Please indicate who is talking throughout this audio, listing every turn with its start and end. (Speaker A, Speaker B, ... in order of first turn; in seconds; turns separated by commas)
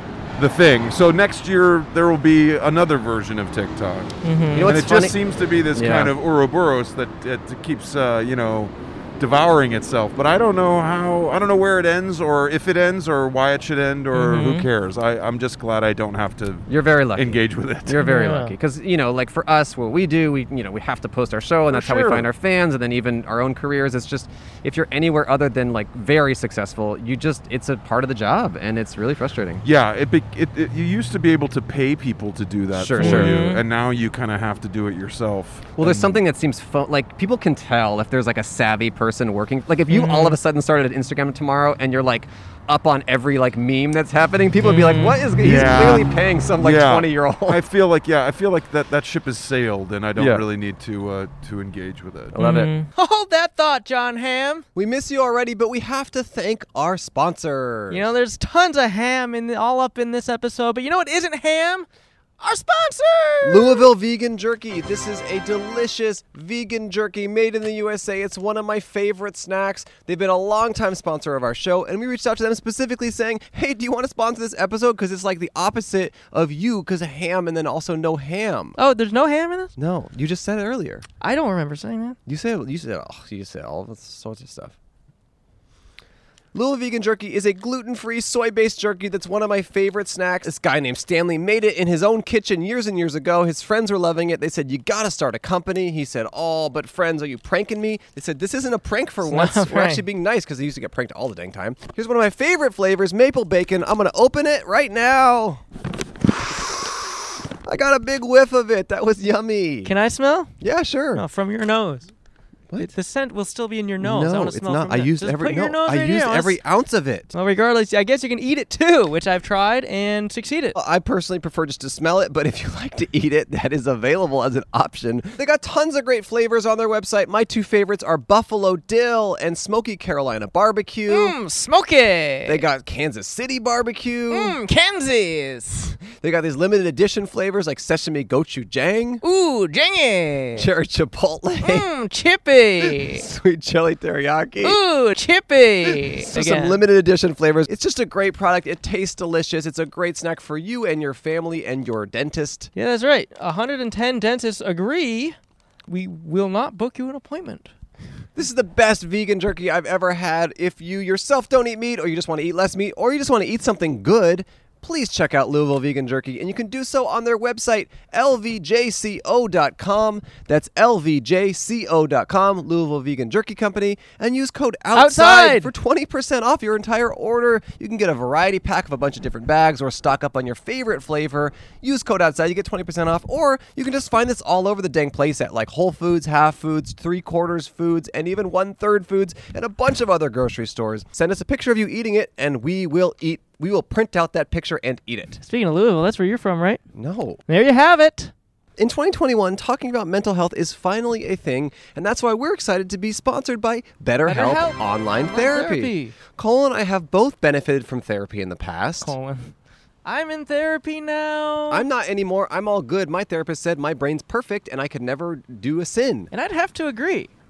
Speaker A: 0.4-18.0, Speaker B: 4.2-4.8, Speaker C: 4.5-5.2, Speaker C: 5.7-6.1, Speaker B: 14.1-14.7, Speaker C: 16.7-29.6, Speaker B: 18.0-18.6, Speaker A: 21.7-22.3, Speaker A: 29.6-36.2, Speaker C: 32.7-33.5, Speaker B: 33.0-33.6, Speaker C: 35.8-47.6, Speaker B: 39.9-40.4, Speaker B: 44.6-45.3, Speaker A: 45.4-52.4, Speaker C: 50.2-50.5, Speaker C: 52.3-52.7, Speaker B: 52.4-54.6, Speaker C: 54.8-58.1, Speaker B: 57.9-61.9, Speaker B: 62.4-63.9, Speaker C: 63.4-78.8, Speaker B: 78.8-79.7, Speaker C: 79.8-81.1, Speaker B: 81.2-82.2, Speaker C: 82.3-84.8, Speaker C: 86.5-105.6, Speaker B: 99.2-100.1, Speaker C: 106.5-107.0, Speaker C: 107.7-109.9, Speaker B: 109.8-110.5, Speaker C: 110.6-111.2, Speaker B: 111.2-112.1, Speaker B: 112.8-116.6, Speaker C: 114.0-117.3, Speaker B: 117.3-120.8, Speaker C: 120.7-131.4, Speaker B: 131.1-132.6, Speaker C: 132.4-134.6, Speaker B: 134.3-136.0, Speaker C: 136.0-139.2, Speaker B: 139.2-140.7, Speaker C: 140.6-141.9, Speaker B: 141.6-143.2, Speaker C: 142.8-144.8, Speaker B: 144.6-146.8, Speaker C: 145.9-152.7, Speaker B: 152.8-157.7, Speaker C: 158.3-195.4, Speaker B: 174.9-175.7, Speaker B: 195.4-196.8, Speaker C: 196.9-197.4, Speaker B: 197.5-198.3, Speaker C: 198.8-209.2, Speaker B: 204.2-206.2, Speaker B: 209.0-209.5, Speaker B: 210.1-211.9, Speaker C: 211.7-216.3, Speaker B: 216.3-217.3